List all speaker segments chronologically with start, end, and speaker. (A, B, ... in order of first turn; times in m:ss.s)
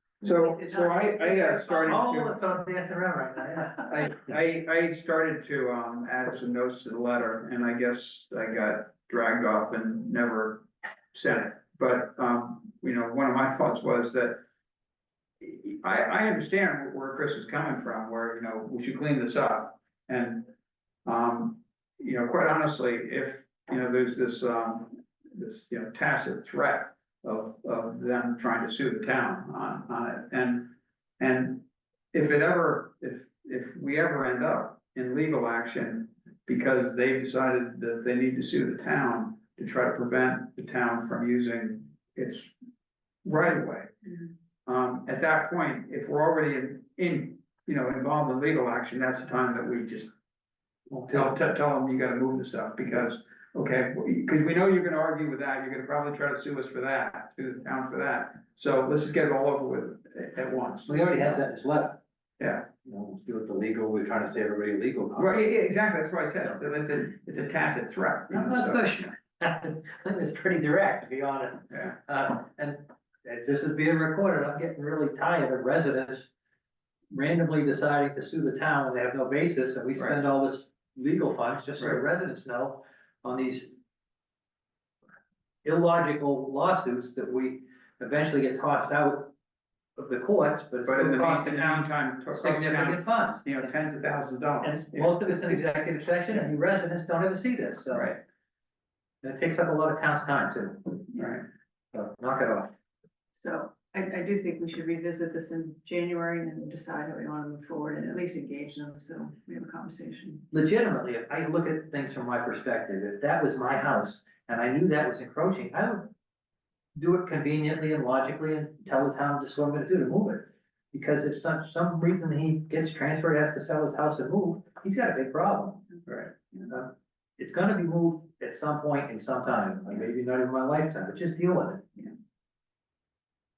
0:00.2-0:02.1 A
0:00.2-0:02.4 B
0:01.8-0:04.2 C
0:03.9-0:14.4 B
0:15.4-0:20.5 B
0:21.0-0:42.5 B
0:43.2-0:43.9 B
0:44.6-0:50.1 B
0:50.9-1:01.4 B
1:00.9-1:02.0 C
1:02.4-1:02.7 B
1:02.8-1:05.4 C
1:05.1-1:08.8 B
1:08.3-1:16.3 C
1:17.1-1:23.7 C
1:25.6-1:29.3 C
1:30.0-1:33.8 C
1:30.8-1:35.2 B
1:34.6-1:38.2 C
1:37.9-1:38.2 B
1:39.2-1:41.0 C
1:41.1-1:41.4 B
1:41.9-1:42.7 C
1:43.3-1:50.5 A
1:50.5-1:56.1 C
1:56.9-2:11.8 C